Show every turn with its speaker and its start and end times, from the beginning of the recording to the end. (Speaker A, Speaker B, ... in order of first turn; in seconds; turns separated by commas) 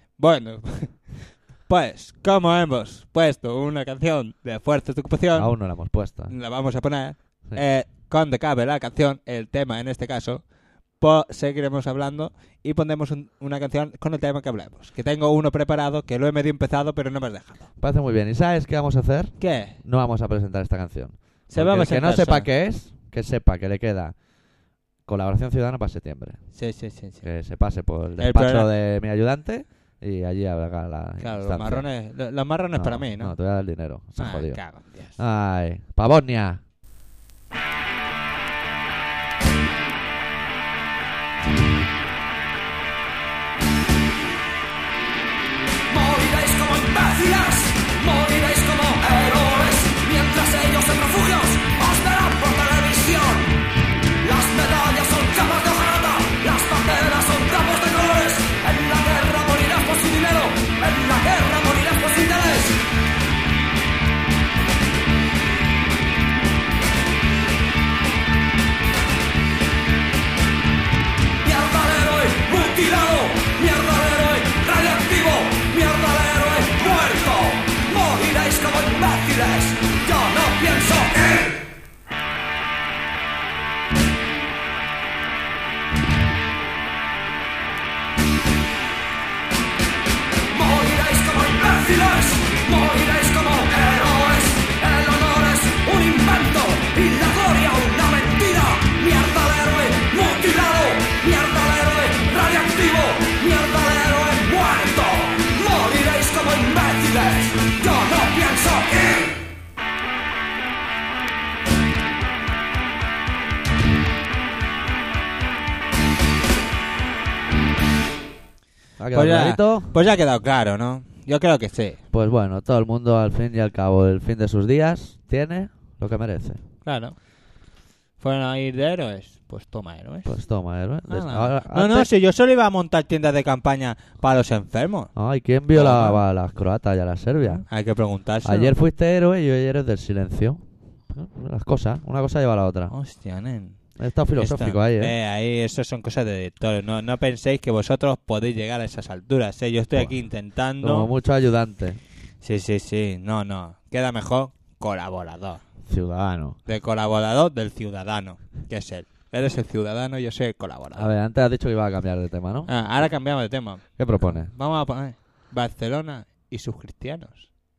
Speaker A: 0.2-17.7, Speaker B: 5.3-6.4, Speaker B: 17.8-24.3, Speaker A: 19.4-19.8, Speaker A: 21.5-22.5, Speaker B: 25.0-26.6, Speaker A: 26.5-27.3, Speaker B: 27.2-36.6, Speaker A: 28.2-28.7, Speaker A: 31.2-33.4, Speaker A: 34.2-35.2, Speaker C: 45.9-53.6, Speaker C: 54.2-62.8, Speaker C: 71.4-81.6, Speaker C: 90.5-109.3, Speaker B: 119.0-119.9, Speaker A: 119.1-122.0, Speaker B: 122.1-126.6, Speaker A: 126.8-127.4, Speaker A: 128.2-135.2, Speaker B: 130.2-132.1, Speaker B: 135.2-137.7, Speaker A: 135.7-136.2, Speaker A: 137.6-138.7, Speaker B: 138.4-142.9, Speaker A: 142.9-151.1, Speaker B: 143.9-145.1, Speaker B: 149.9-152.0, Speaker A: 152.4-155.6, Speaker B: 155.9-156.6, Speaker A: 156.7-161.1, Speaker B: 160.9-164.5, Speaker A: 162.7-167.5